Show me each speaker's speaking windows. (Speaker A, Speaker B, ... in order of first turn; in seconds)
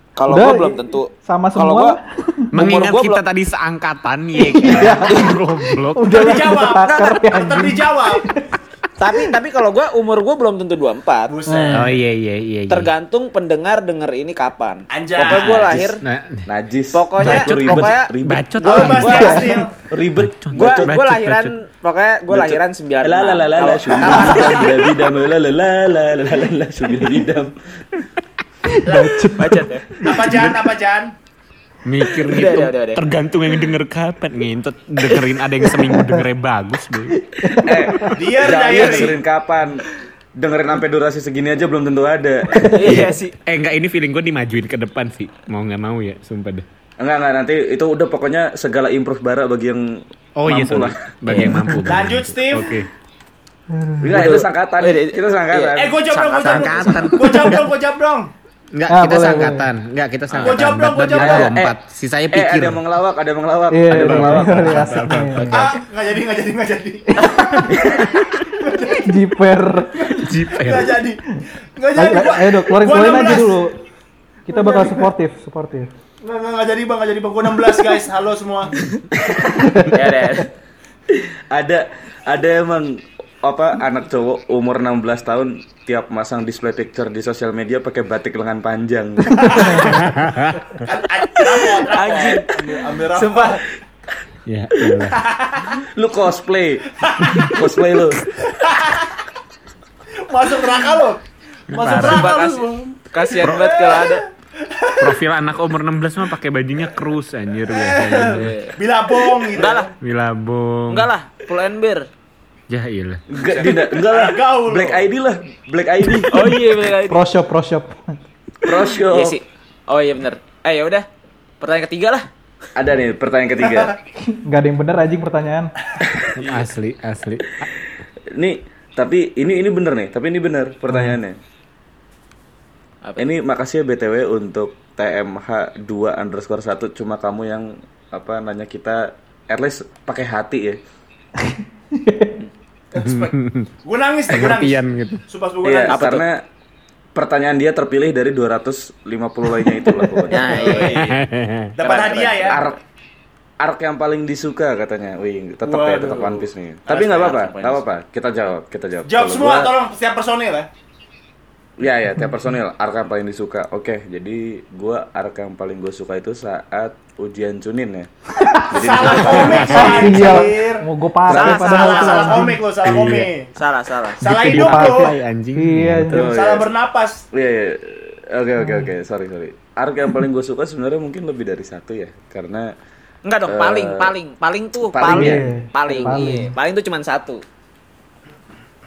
Speaker A: 0.2-2.0, 2.5-3.2, 6.9-7.2, 9.0-11.3, 12.7-16.0, 16.9-19.6, 20.5-24.8, 29.4-30.0, 32.2-33.0, 38.6-39.1, 42.7-43.4, 51.3-51.8, 54.8-57.2, 79.9-80.5, 91.4-93.6, 101.9-104.2, 108.3-108.8, 109.5-109.9, 110.9-112.1, 116.3-117.2, 119.1-121.1, 121.6-122.3, 145.8-146.3, 150.3-151.2, 151.8-152.6, 156.9-157.8, 171.3-172.5, 173.6-174.2, 183.2-187.4
Speaker B: 0.3-2.5, 4.4-8.6, 9.1-9.4, 11.5-11.9, 19.2-19.6, 28.6-30.3, 37.4-38.2, 42.6-42.9, 51.4-52.0, 53.7-54.5, 58.9-59.7, 63.7-65.7, 67.2-67.7, 69.0-70.2, 72.0-73.8, 74.5-75.9, 89.4-90.0, 116.3-118.0, 124.3-125.7, 130.9-131.2, 141.4-142.4, 149.9-150.7, 168.4-168.8, 169.7-172.6, 174.4-176.4, 178.6-178.9, 185.1-186.6
Speaker C: 2.5-6.4, 11.7-12.9, 16.0-16.5, 17.2-19.5, 20.2-21.5, 30.2-30.7, 31.9-37.3, 42.9-46.6, 50.4-52.9, 56.4-57.7, 58.7-62.8, 63.9-65.8, 67.8-68.3, 70.2-71.0, 89.9-90.6, 94.5-95.2, 101.7-102.4, 105.0-108.6, 110.0-111.1, 112.7-113.2, 126.4-127.7, 143.0-143.7, 144.3-145.2, 150.6-151.7, 169.1-170.2, 172.8-173.3, 174.2-176.3
Speaker D: 6.1-8.2, 11.3-12.0, 14.9-15.8, 18.6-19.7, 28.9-29.2, 30.0-31.1, 38.1-39.1, 51.9-52.8, 55.8-58.3, 60.4-61.5, 65.5-69.2, 70.0-71.2, 71.8-73.6, 74.5-75.1, 76.2-78.9, 90.8-93.7, 95.1-95.8, 97.0-97.6, 98.4-99.2, 100.2-105.2, 107.7-109.9, 113.5-115.0, 123.7-124.0, 142.9-146.0, 150.4-151.2, 151.8-152.6, 155.7-156.5, 159.1-160.7, 168.7-173.5, 174.2-175.1, 176.1-177.2
Speaker E: 15.3-15.9, 16.5-19.0, 19.9-20.9, 22.3-27.6, 37.6-39.9, 40.4-43.0, 47.0-51.0, 54.0-56.8, 61.1-61.8, 62.3-64.8, 81.5-89.9, 95.8-98.2, 113.3-116.3, 118.6-119.4, 122.8-124.0, 126.0-126.4, 128.3-131.4, 133.2-140.8, 145.6-146.4, 147.2-150.5, 152.4-152.8, 153.6-159.8, 161.8-168.1, 168.6-170.2, 171.3-171.6, 176.1-176.7, 177.3-182.7, 183.5-184.1, 184.9-185.4